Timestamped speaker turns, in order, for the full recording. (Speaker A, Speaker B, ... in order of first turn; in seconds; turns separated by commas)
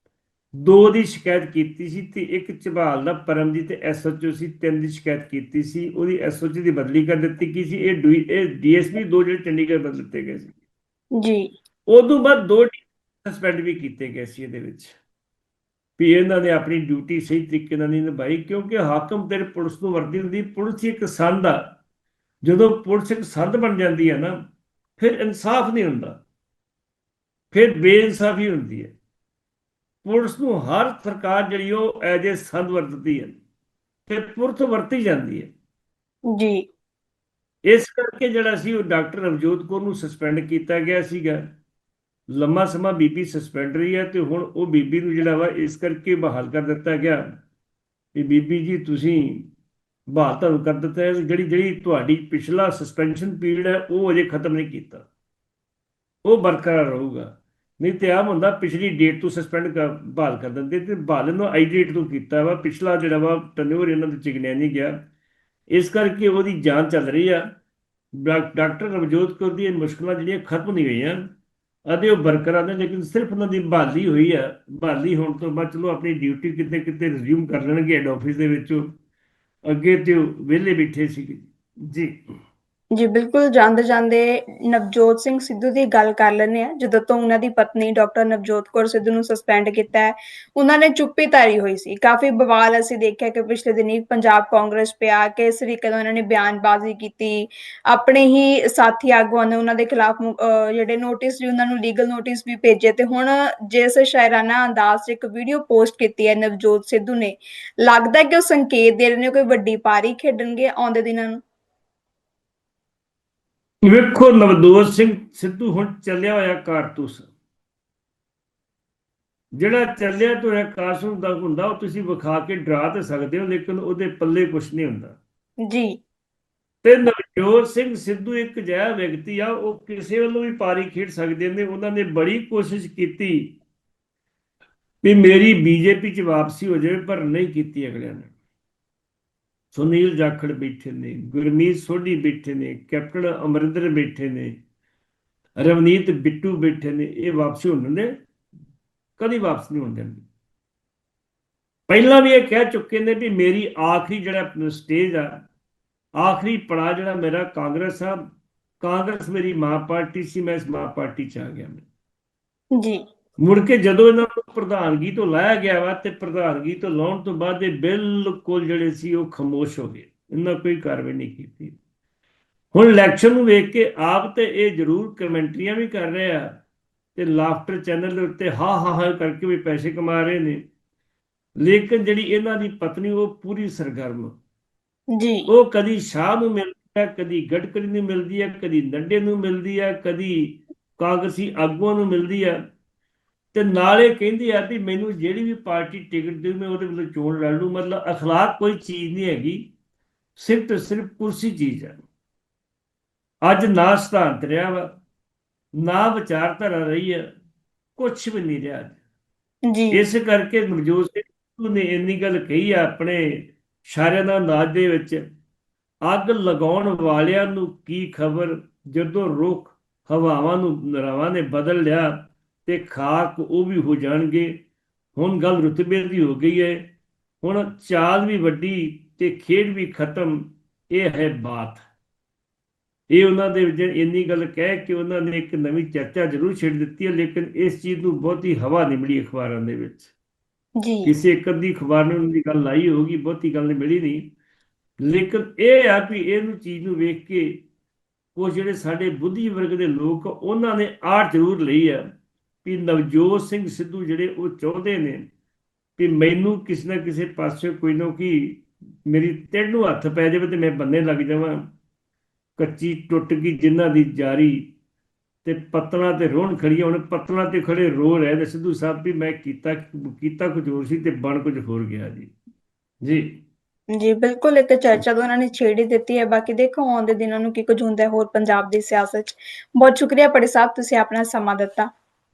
Speaker A: 0.6-10.6, Speaker B: 11.2-11.5, Speaker A: 11.9-15.0, Speaker A: 16.0-21.8, Speaker A: 22.4-24.4, Speaker A: 25.0-26.2, Speaker A: 27.5-28.9, Speaker A: 30.0-33.4, Speaker A: 34.1-35.5, Speaker B: 36.3-36.6, Speaker A: 37.7-41.4, Speaker A: 42.3-47.2, Speaker A: 48.1-49.5, Speaker A: 50.1-55.1, Speaker A: 56.2-64.9, Speaker A: 65.7-67.4, Speaker A: 68.2-71.3, Speaker A: 71.9-78.9, Speaker A: 79.7-82.2, Speaker B: 83.0-111.4, Speaker A: 113.8-117.3, Speaker A: 119.6-125.2, Speaker B: 125.7-126.0, Speaker A: 126.8-133.6, Speaker A: 135.0-138.3, Speaker A: 139.7-144.6, Speaker A: 145.6-148.1, Speaker A: 149.2-150.2, Speaker A: 151.9-155.3, Speaker A: 156.2-158.3, Speaker A: 158.8-161.8, Speaker A: 163.4-171.8, Speaker A: 172.7-176.6, Speaker A: 177.2-180.6, Speaker A: 181.6-184.3, Speaker B: 185.2-185.5, Speaker A: 185.5-192.6, Speaker A: 193.5-199.7, Speaker A: 200.4-202.0, Speaker A: 203.4-205.0, Speaker A: 205.8-207.2, Speaker A: 208.0-209.0, Speaker B: 209.7-210.0, Speaker A: 209.9-215.2, Speaker A: 216.1-224.6, Speaker A: 225.2-226.9, Speaker A: 227.4-231.8, Speaker A: 233.1-240.1, Speaker B: 240.8-241.2, Speaker A: 241.1-244.3, Speaker A: 245.0-247.6, Speaker A: 248.3-252.0, Speaker A: 252.7-255.3, Speaker A: 256.0-261.6, Speaker A: 262.6-264.7, Speaker A: 265.4-272.3, Speaker A: 273.0-273.4, Speaker B: 274.0-281.9